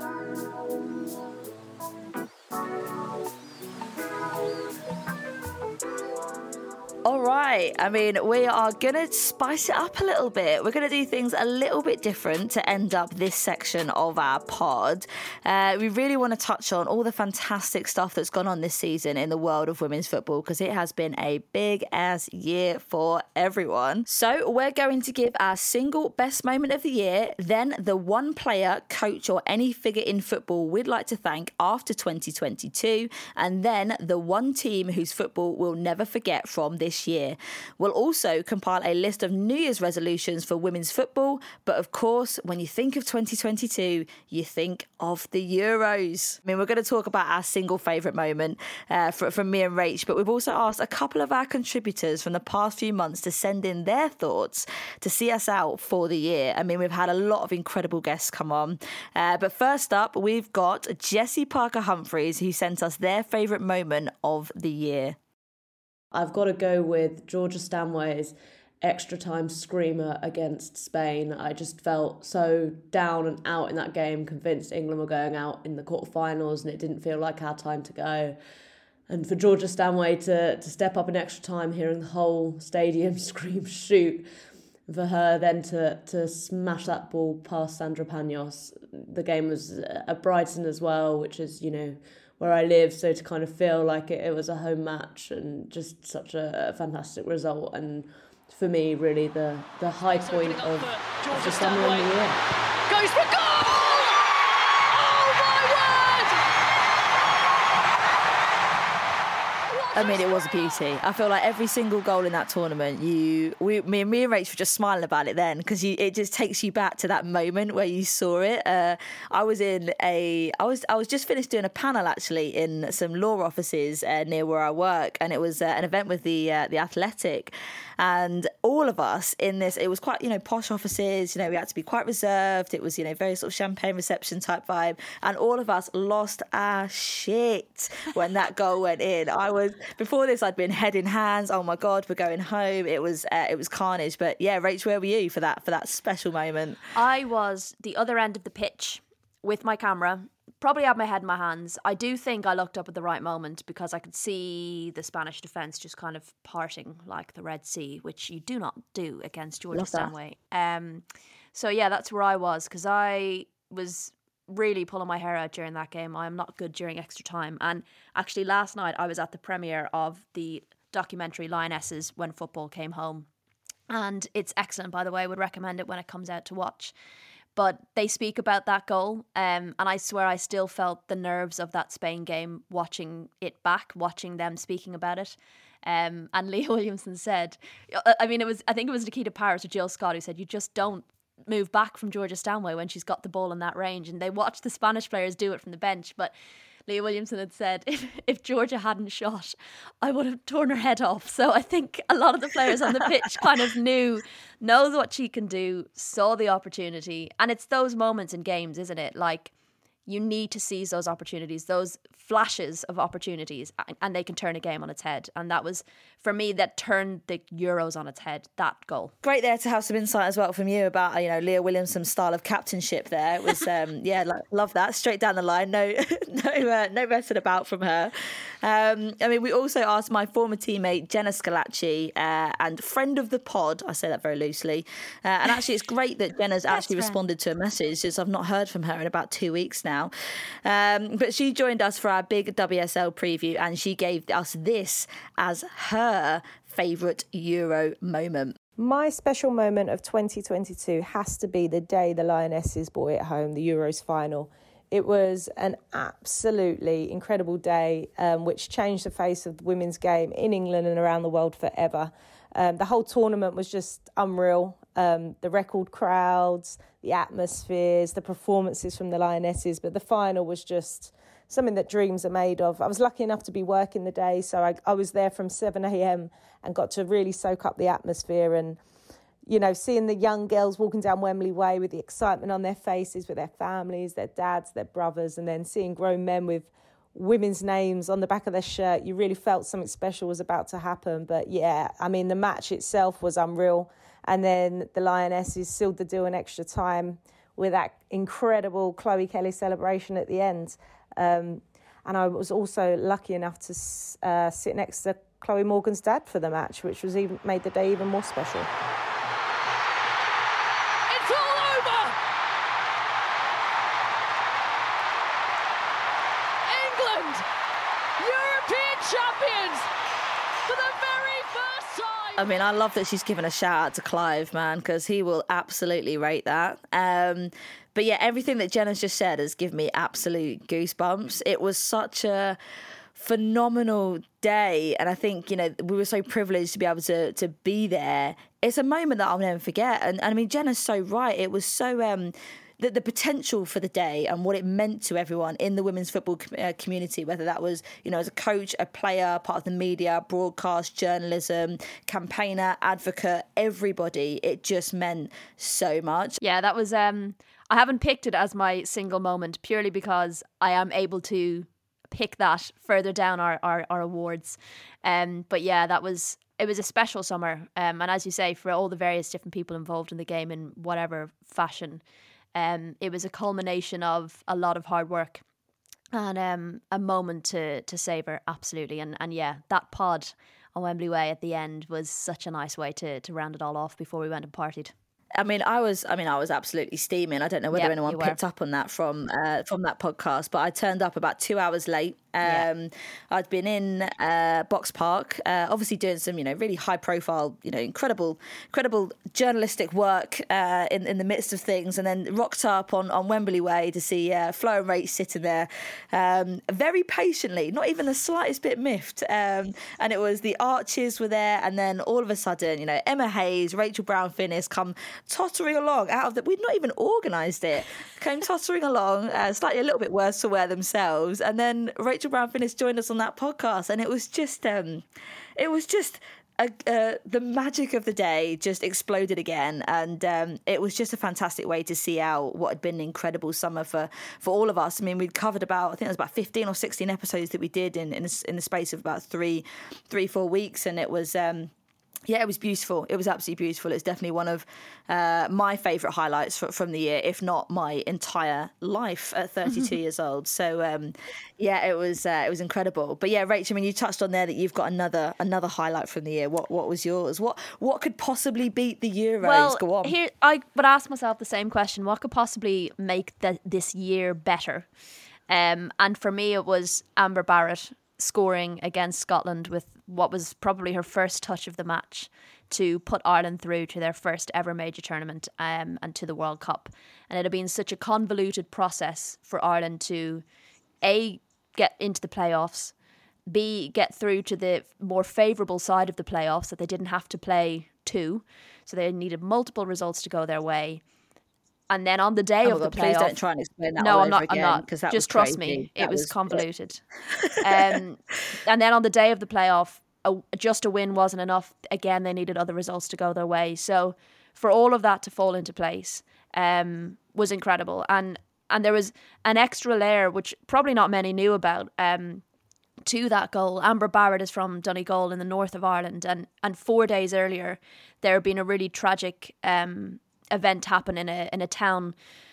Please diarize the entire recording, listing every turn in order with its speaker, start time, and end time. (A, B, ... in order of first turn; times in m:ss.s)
0:07.0-1:05.2 A
1:06.1-1:18.4 B
1:19.1-1:24.3 B
1:24.8-1:42.4 B
1:40.2-1:42.2 C
1:42.9-1:44.2 C
1:44.9-1:46.4 C
1:49.7-1:50.8 C
1:49.9-2:26.8 A
2:26.9-2:41.0 D
2:39.7-2:40.1 A
2:41.5-2:53.3 D
2:53.9-2:56.9 D
2:57.5-3:16.3 D
3:16.9-3:29.5 D
3:30.1-3:39.1 D
3:39.2-4:00.1 A
4:00.6-4:08.6 A
4:08.8-4:38.8 E
4:39.4-5:08.7 E
5:11.1-5:12.2 C
5:16.7-5:17.4 C
5:18.2-5:19.9 C
5:20.6-5:22.4 C
5:22.4-5:32.6 A
5:33.2-5:56.4 A
5:56.4-6:12.0 D
6:12.5-6:15.4 D
6:16.1-6:24.9 D
6:25.4-7:05.0 A
6:27.7-6:28.4 D
7:05.6-7:21.7 A
7:22.3-7:40.2 A
7:39.4-7:44.9 D
7:45.5-8:00.4 D
8:01.0-8:02.9 D
8:03.4-8:11.0 D
8:11.9-8:13.4 D
8:12.6-8:16.6 A
8:14.0-8:17.0 D
8:17.4-8:17.8 A
8:17.6-8:32.4 D
8:33.0-8:42.1 D